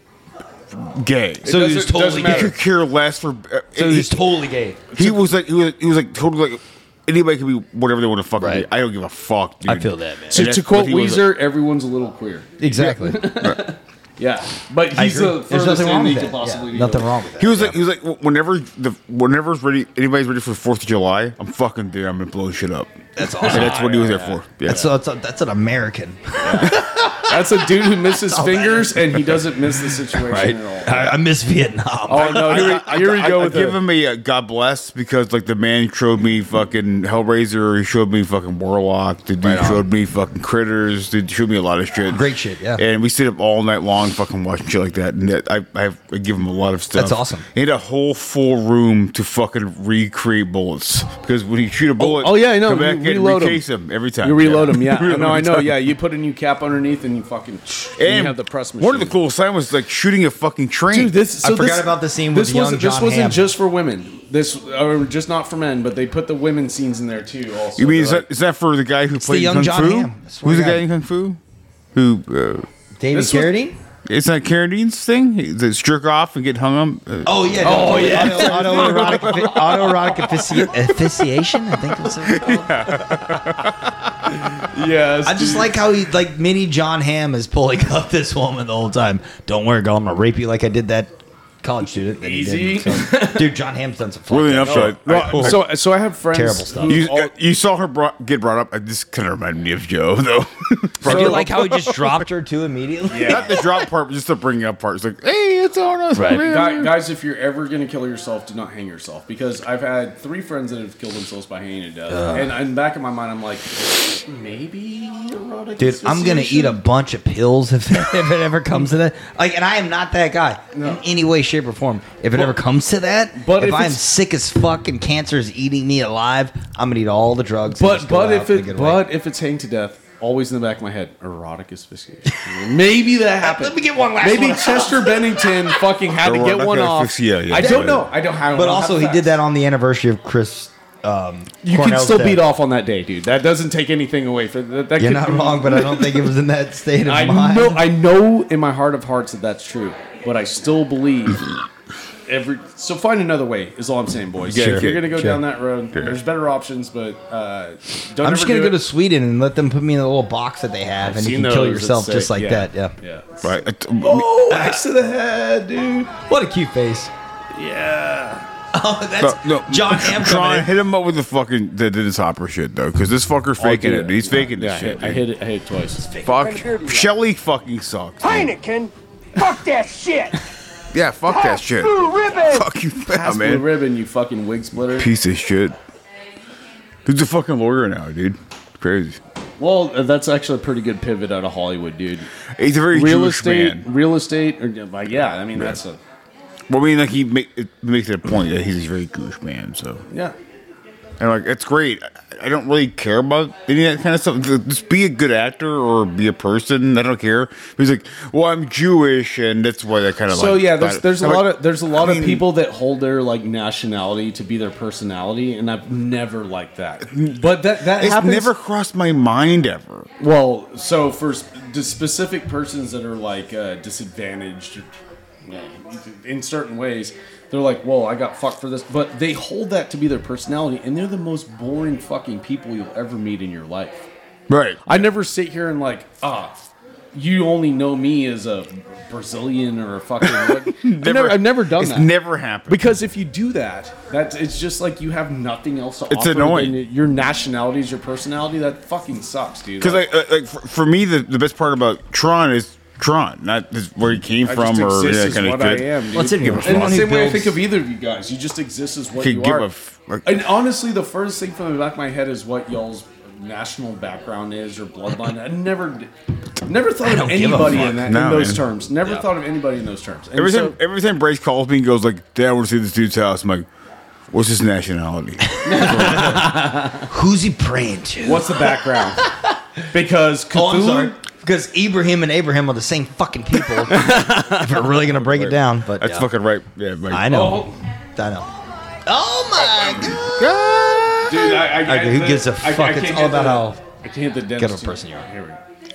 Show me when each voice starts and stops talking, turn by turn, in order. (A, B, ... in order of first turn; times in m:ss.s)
0:00.7-0:01.5 A
0:01.4-0:02.5 B
0:01.4-0:02.6 C
0:02.2-0:04.2 A
0:03.8-0:04.9 C
0:04.9-0:11.3 A
0:08.4-0:08.7 C
0:09.6-0:10.5 C
0:10.3-0:17.1 B
0:12.6-0:13.3 C
0:14.9-0:17.8 C
0:17.4-0:24.9 A
0:23.2-0:23.8 C
0:23.4-0:24.9 B
0:24.6-0:33.3 C
0:26.4-0:31.2 B
0:32.1-0:33.8 B
0:32.2-0:55.8 A
0:39.4-0:39.8 C
0:42.1-0:42.8 C
0:46.9-0:47.4 C
0:52.0-0:53.6 B
0:54.2-0:59.2 B
0:58.0-1:01.2 A
1:00.9-1:08.2 B
1:01.4-1:03.5 C
1:07.8-1:11.4 A
1:09.2-1:10.8 C
1:11.9-1:12.7 A
1:13.0-1:13.8 C
1:13.1-1:13.6 B
1:14.0-1:20.7 A
1:17.2-1:22.8 C
1:17.6-1:19.5 B
1:22.2-1:23.7 A
1:22.4-1:23.0 B
1:24.4-1:25.7 B
1:25.2-1:35.7 C
1:32.2-1:33.5 B
1:34.3-1:35.7 A
1:34.6-1:37.3 B
1:36.3-1:37.0 C
1:36.8-1:42.2 A
1:41.0-1:43.7 C
1:41.0-1:41.5 B
1:43.1-1:43.5 B
1:43.2-1:47.0 A
1:46.1-1:46.4 C
1:46.4-1:56.8 B
1:52.1-1:52.6 C
1:55.8-2:09.1 C
2:00.7-2:01.0 B
2:03.3-2:04.0 B
2:07.7-2:19.4 B
2:12.3-2:12.6 C
2:13.4-2:15.8 C
2:16.2-2:18.1 A
2:17.5-2:22.4 C
2:21.6-2:26.3 B
2:25.0-2:27.9 C
2:27.0-2:31.5 B
2:32.3-2:38.8 B
2:34.4-2:35.2 A
2:34.5-2:35.4 C
2:35.9-2:36.2 A
2:38.2-2:42.9 C
2:41.0-2:46.2 B
2:43.4-2:44.3 A
2:44.5-2:44.8 C
2:46.2-2:47.1 C
2:47.5-2:48.5 B
2:48.7-2:50.7 C
2:49.2-2:55.3 A
2:53.6-2:56.0 B
2:56.0-2:56.4 C
2:56.2-2:58.5 A
2:56.3-2:57.1 D
2:58.2-3:00.4 D
3:00.9-3:03.7 A
3:01.3-3:02.7 D
3:03.1-3:05.1 B
3:04.9-3:05.8 A
3:07.0-3:09.2 A
3:09.6-3:12.3 B
3:12.6-3:13.8 A
3:12.9-3:16.0 B
3:16.7-3:20.0 A
3:20.1-3:20.4 B
3:21.2-3:32.5 A
3:30.3-3:38.5 B
3:37.1-3:40.1 A
3:40.2-3:44.9 B
3:45.4-3:54.1 B
3:54.5-3:55.0 A
3:54.8-4:02.1 B
4:00.2-4:02.9 A
4:02.7-4:10.0 B
4:06.1-4:06.8 A
4:09.8-4:17.0 A
4:14.4-4:19.7 B
4:16.1-4:17.6 C
4:19.2-4:20.4 A
4:20.2-4:26.1 B
4:26.6-4:30.8 B
4:27.0-4:27.9 C
4:27.8-4:28.7 A
4:30.3-4:33.7 A
4:34.3-4:36.5 A
4:35.5-4:39.5 C
4:35.6-4:37.0 B
4:38.2-4:39.2 B
4:39.9-4:41.2 B
4:40.5-4:46.3 C
4:43.9-4:44.8 B
4:45.1-4:47.5 A
4:47.1-4:48.5 C
4:47.3-4:47.8 B
4:49.0-4:50.4 C
4:49.7-4:50.1 B
4:50.0-4:51.6 A
4:51.3-4:55.6 B
4:51.6-4:53.8 C
4:54.6-4:55.3 C